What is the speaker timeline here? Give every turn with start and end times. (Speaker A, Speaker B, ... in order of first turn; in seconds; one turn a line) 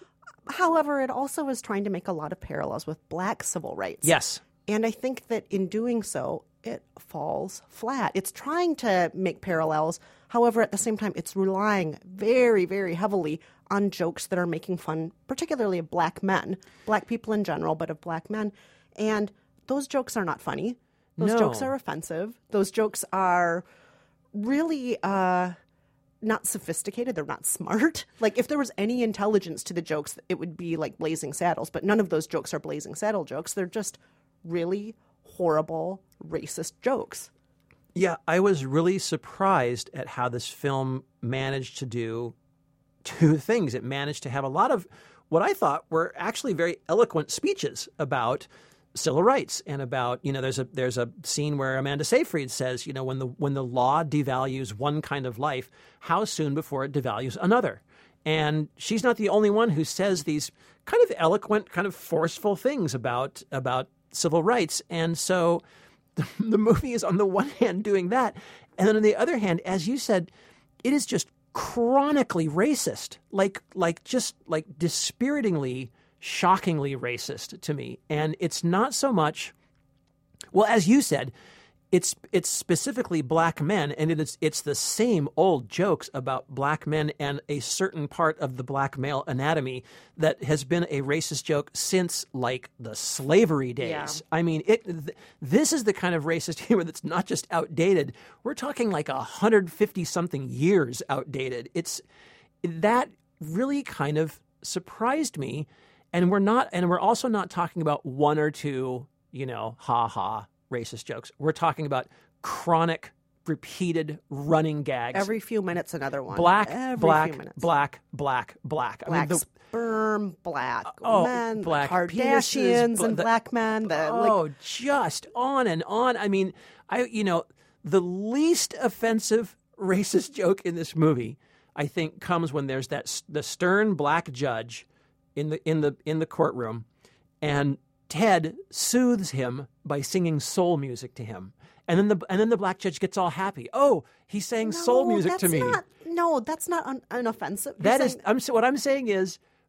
Speaker A: 0.5-4.1
Speaker B: 4.0-4.4
Speaker A: 4.7-23.6
Speaker B: 21.2-21.7
Speaker A: 24.3-25.6
Speaker A: 26.2-37.3
Speaker B: 38.0-42.4
Speaker B: 43.0-65.6
Speaker B: 66.2-70.3
Speaker B: 70.8-79.5
Speaker B: 80.5-81.3
Speaker B: 81.9-102.0
Speaker A: 93.8-94.2
Speaker B: 102.6-115.3
Speaker A: 115.1-117.7
Speaker B: 116.3-119.5
Speaker A: 119.1-124.4
Speaker B: 120.9-123.3
Speaker B: 123.9-136.8
Speaker B: 137.4-145.8
Speaker A: 144.6-148.2
Speaker B: 147.8-149.4